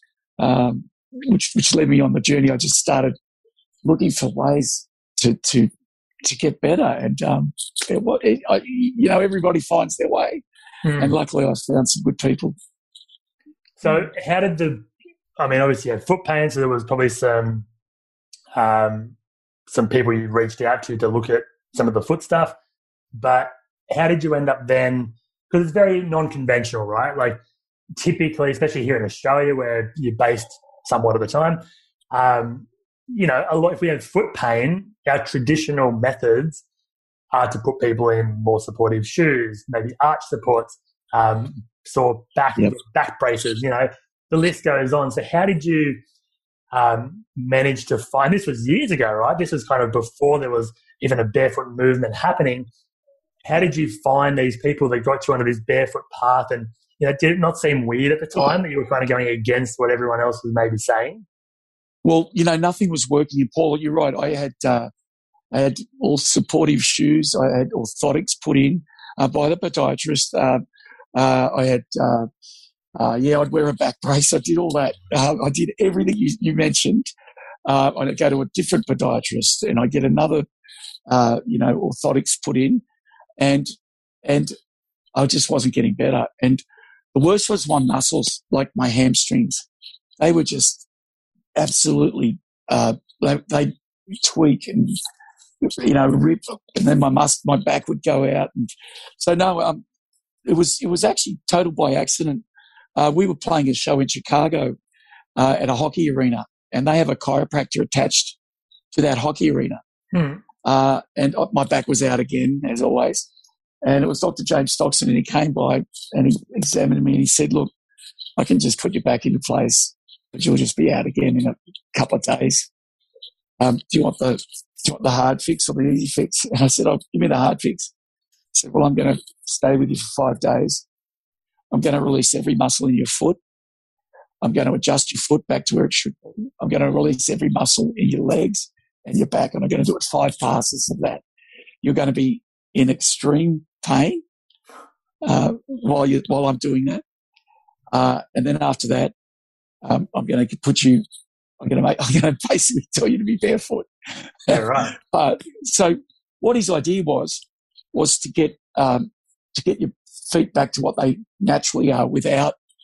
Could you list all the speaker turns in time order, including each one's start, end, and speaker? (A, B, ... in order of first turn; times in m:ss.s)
0:00.4-0:03.2 A
0:03.8-0:05.7 A
0:06.2-0:10.4 A
0:10.8-0:11.2 B
0:11.0-0:12.6 A
0:13.8-0:14.9 B
0:15.4-0:17.7 B
0:18.6-0:19.2 B
0:19.7-0:22.6 B
0:23.2-0:27.4 B
0:28.0-0:36.6 B
0:37.3-0:46.0 B
0:46.7-0:52.7 B
0:53.4-1:01.2 B
1:02.0-1:04.9 A
1:05.5-1:10.6 A
1:11.2-1:12.3 A
1:13.0-1:17.1 A
1:17.7-1:20.5 A
1:21.1-1:22.8 A
1:23.4-1:23.7 A
1:24.2-1:24.5 A
1:25.2-1:26.6 A
1:27.1-1:29.6 A
1:30.2-1:30.9 A
1:31.6-1:35.0 A
1:35.6-1:39.8 A
1:40.5-1:42.4 A
1:43.0-1:44.8 A
1:45.4-1:48.4 A
1:48.9-1:49.8 A
1:50.1-1:50.4 B
1:50.6-1:53.3 A
1:53.8-1:57.7 A
1:58.4-2:02.7 A
2:03.6-2:07.9 A
2:08.5-2:10.8 A
2:11.7-2:13.4 A
2:14.4-2:21.2 A
2:21.8-2:24.2 A
2:25.2-2:27.0 A
2:27.9-2:29.1 A
2:29.8-2:31.0 A
2:31.6-2:33.9 A
2:34.5-2:42.5 A
2:34.5-2:35.0 B